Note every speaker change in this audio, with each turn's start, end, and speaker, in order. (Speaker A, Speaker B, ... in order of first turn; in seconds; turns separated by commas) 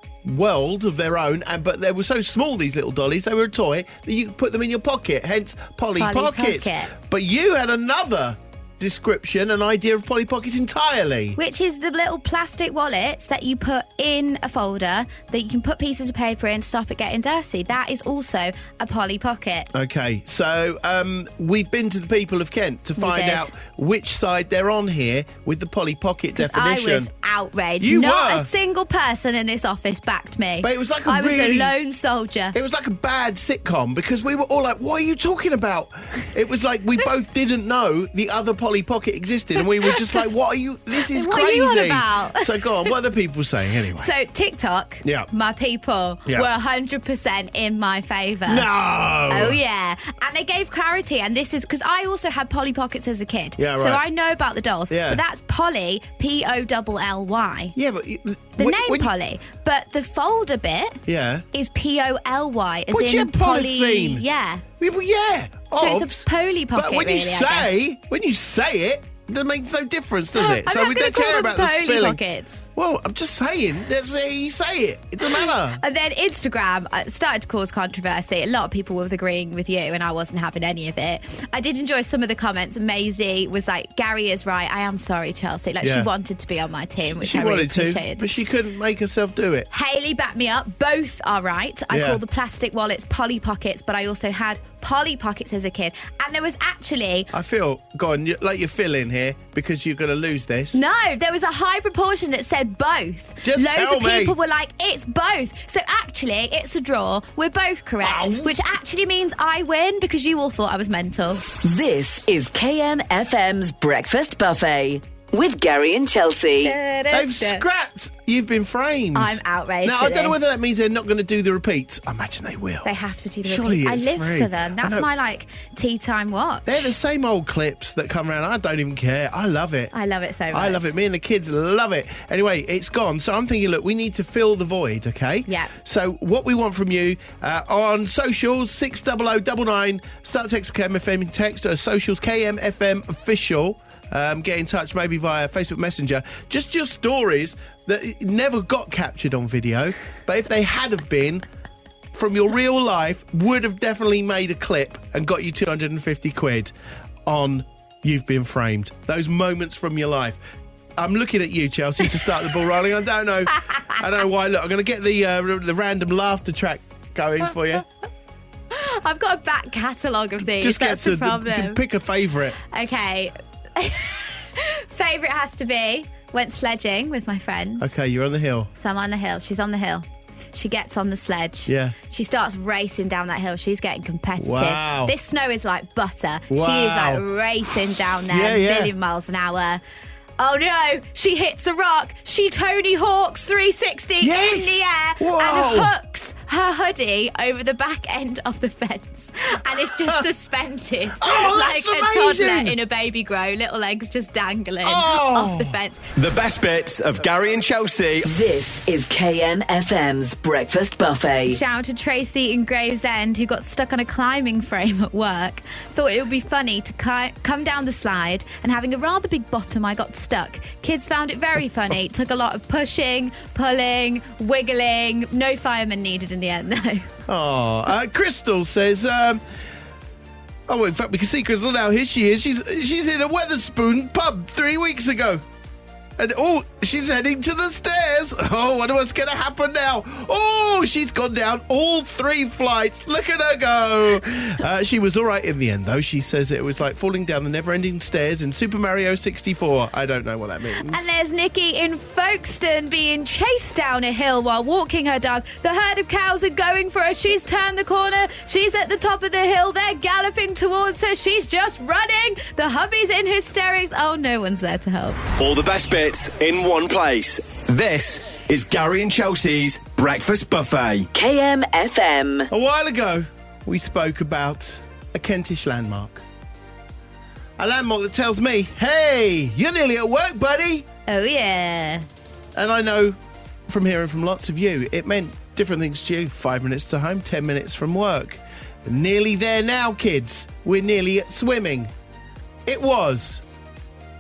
Speaker A: 0.2-11.4, Speaker B: 6.0-6.9, Speaker B: 11.3-19.7, Speaker A: 19.7-27.1, Speaker B: 23.0-23.5, Speaker B: 26.4-32.6, Speaker A: 27.8-28.5, Speaker A: 30.6-31.7, Speaker A: 32.5-44.1, Speaker B: 41.1-42.6, Speaker B: 44.0-48.7, Speaker A: 45.0-45.3, Speaker A: 48.5-49.6, Speaker B: 49.3-57.8, Speaker A: 53.6-54.0, Speaker A: 54.9-55.2, Speaker A: 57.8-59.1, Speaker B: 58.6-61.0, Speaker A: 61.1-61.4, Speaker B: 61.5-64.6, Speaker A: 62.9-64.2, Speaker A: 64.8-72.2, Speaker B: 65.8-67.7, Speaker B: 70.4-72.7, Speaker A: 72.8-75.8, Speaker B: 75.8-88.2, Speaker A: 85.8-86.1, Speaker A: 87.0-89.7, Speaker B: 89.7-97.3, Speaker A: 91.9-92.2, Speaker A: 97.3-100.8, Speaker B: 100.7-111.5, Speaker A: 103.4-104.4, Speaker A: 108.0-108.6, Speaker C: 111.6-116.8, Speaker B: 116.6-117.6, Speaker A: 117.1-122.9, Speaker B: 119.1-120.4, Speaker B: 122.8-126.8, Speaker A: 123.4-125.1, Speaker A: 126.7-129.9, Speaker B: 129.9-130.9, Speaker A: 130.5-151.4, Speaker B: 135.5-135.7, Speaker A: 152.1-156.7, Speaker A: 157.2-160.4, Speaker A: 161.0-167.9, Speaker B: 168.7-171.8, Speaker A: 170.6-172.6, Speaker B: 172.7-177.9, Speaker A: 177.8-178.7, Speaker B: 178.8-189.8, Speaker A: 181.7-181.9, Speaker A: 184.4-185.1, Speaker A: 186.5-187.2, Speaker A: 188.3-188.9, Speaker B: 190.4-206.1, Speaker A: 194.2-195.9, Speaker A: 201.2-202.8, Speaker A: 204.8-205.8, Speaker D: 206.1-208.2, Speaker C: 208.2-211.6, Speaker B: 211.5-227.1, Speaker A: 227.3-229.4, Speaker A: 230.7-235.4, Speaker A: 236.2-251.1, Speaker B: 250.8-265.2, Speaker D: 265.4-271.1, Speaker C: 271.1-272.5, Speaker A: 272.5-276.2, Speaker A: 277.6-280.9, Speaker B: 281.1-282.1, Speaker A: 282.5-283.2, Speaker A: 283.7-291.9, Speaker A: 292.6-293.4